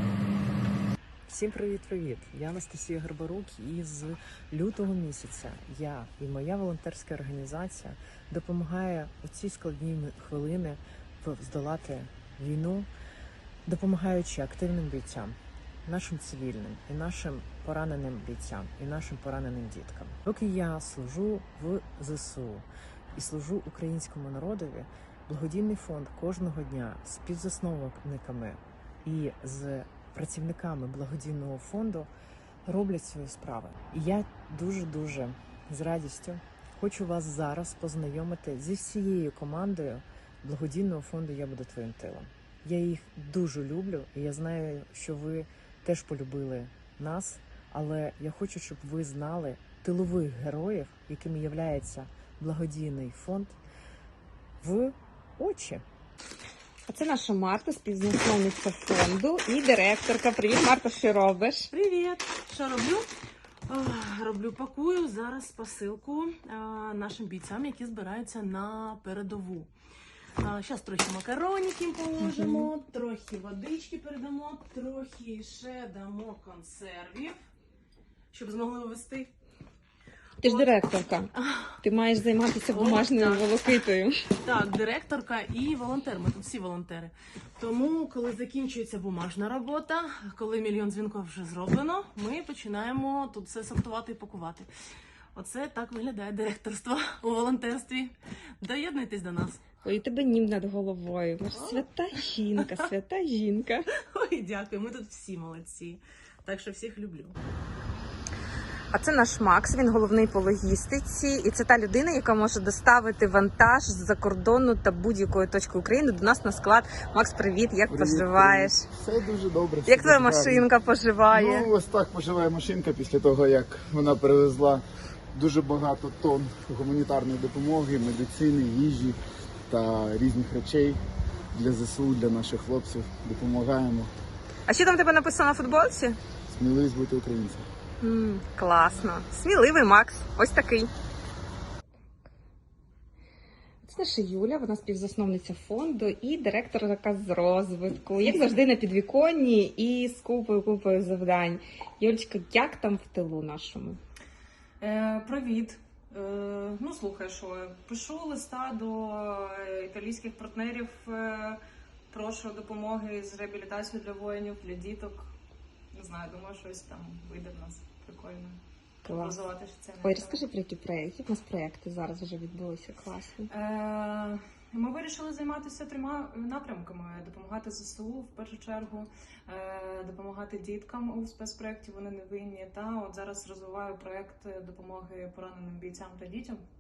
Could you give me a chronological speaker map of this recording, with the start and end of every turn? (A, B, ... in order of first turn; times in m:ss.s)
0:01.3-0:12.9 A
0:13.6-0:32.1 A
0:32.6-0:53.6 A
0:54.6-0:55.8 A
0:56.9-1:01.7 B
1:01.7-1:03.1 C
1:03.7-1:09.7 C
1:10.4-1:17.4 C
1:12.2-1:12.7 B
1:18.3-1:19.3 C
1:20.4-1:20.8 C
1:20.4-1:21.3 B
1:21.4-1:21.7 C
1:21.8-1:24.1 B
1:22.7-1:23.8 C
1:24.4-1:34.7 C
1:35.3-1:39.6 C
1:39.8-1:43.8 B
1:41.5-1:41.9 C
1:42.6-1:42.8 C
1:44.1-1:47.4 C
1:48.9-1:58.8 B
1:57.9-2:00.7 D
1:59.8-2:01.7 B
2:01.3-2:11.0 D
2:11.5-2:14.1 D
2:14.7-2:16.2 B
2:16.5-2:17.7 D
2:18.0-2:20.9 B
2:23.8-2:34.0 B
2:28.2-2:28.6 E
2:34.8-2:41.6 E
2:42.1-2:45.3 E
2:45.9-2:50.4 E
2:49.0-2:49.4 B
2:50.0-2:53.5 B
2:53.5-3:06.6 E